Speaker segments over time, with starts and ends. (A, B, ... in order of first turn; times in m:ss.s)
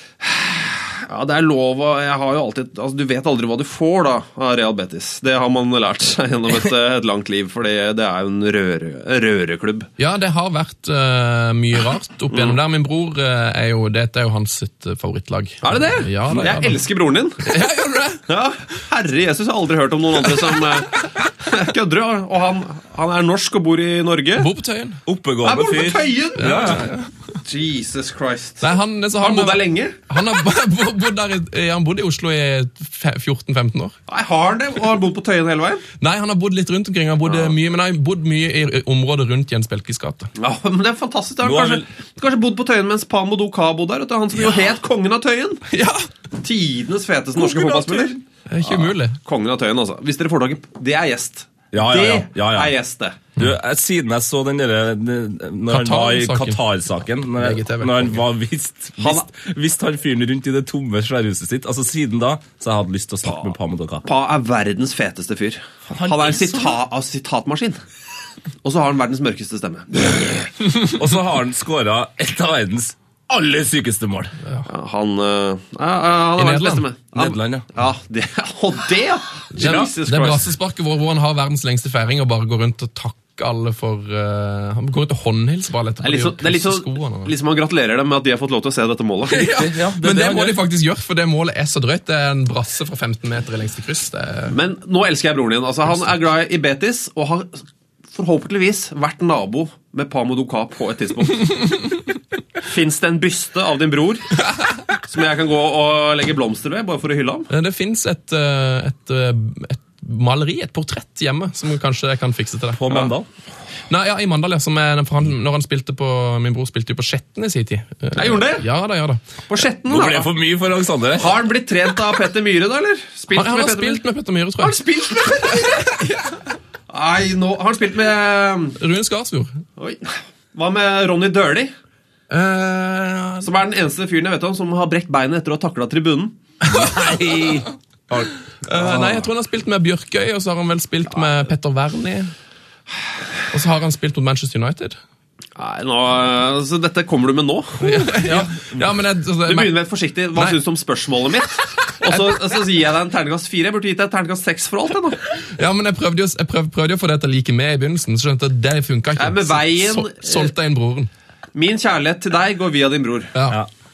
0:00.2-0:09.9 A
0:10.0-0:16.8 B
0:12.3-0:12.6 A
0:15.6-0:17.4 A
0:17.4-0:18.2 B
0:18.3-0:24.5 A
0:24.4-0:25.0 B
0:25.0-0:26.8 C
0:25.4-0:26.8 A
0:26.4-0:27.1 B
0:27.4-0:30.0 A
0:28.6-0:33.9 B
0:34.1-0:35.8 A
0:36.0-0:40.3 B
0:37.2-0:37.5 A
0:40.4-0:45.6 A
0:41.4-0:41.8 C
0:45.7-0:46.1 B
0:46.4-0:53.2 A
0:47.4-0:48.2 C
0:48.5-0:49.2 B
0:51.7-0:52.7 C
0:53.4-1:04.0 C
0:55.7-0:56.6 B
0:57.3-0:58.2 B
0:59.0-0:59.2 A
1:04.0-1:07.8 A
1:05.9-1:06.8 C
1:08.6-1:10.5 A
1:10.9-1:14.4 C
1:14.7-1:20.5 A
1:16.4-1:16.9 B
1:17.1-1:17.6 C
1:19.5-1:27.3 B
1:19.6-1:19.9 C
1:26.0-1:29.5 A
1:29.3-1:34.5 B
1:29.4-1:30.6 C
1:34.5-1:41.7 A
1:42.6-1:44.4 A
1:45.0-1:47.5 A
1:47.5-1:53.0 B
1:52.8-1:53.3 C
1:53.9-1:59.3 B
1:58.2-1:58.6 A
1:59.5-2:00.3 A
1:59.9-2:01.4 C
2:01.2-2:04.0 A
2:03.3-2:06.3 B
2:04.6-2:05.9 A
2:06.9-2:08.8 A
2:08.8-2:09.6 B
2:09.8-2:11.7 A
2:12.3-2:13.5 B
2:13.4-2:16.3 A
2:16.7-2:19.2 C
2:18.6-2:22.3 B
2:23.5-2:25.0 B
2:25.6-2:28.3 A
2:27.8-2:29.7 B
2:28.3-2:28.9 C
2:29.5-2:35.2 A
2:32.1-2:32.4 B
2:35.6-2:41.1 B
2:39.2-2:40.5 A
2:41.5-2:43.3 A
2:43.3-2:43.6 B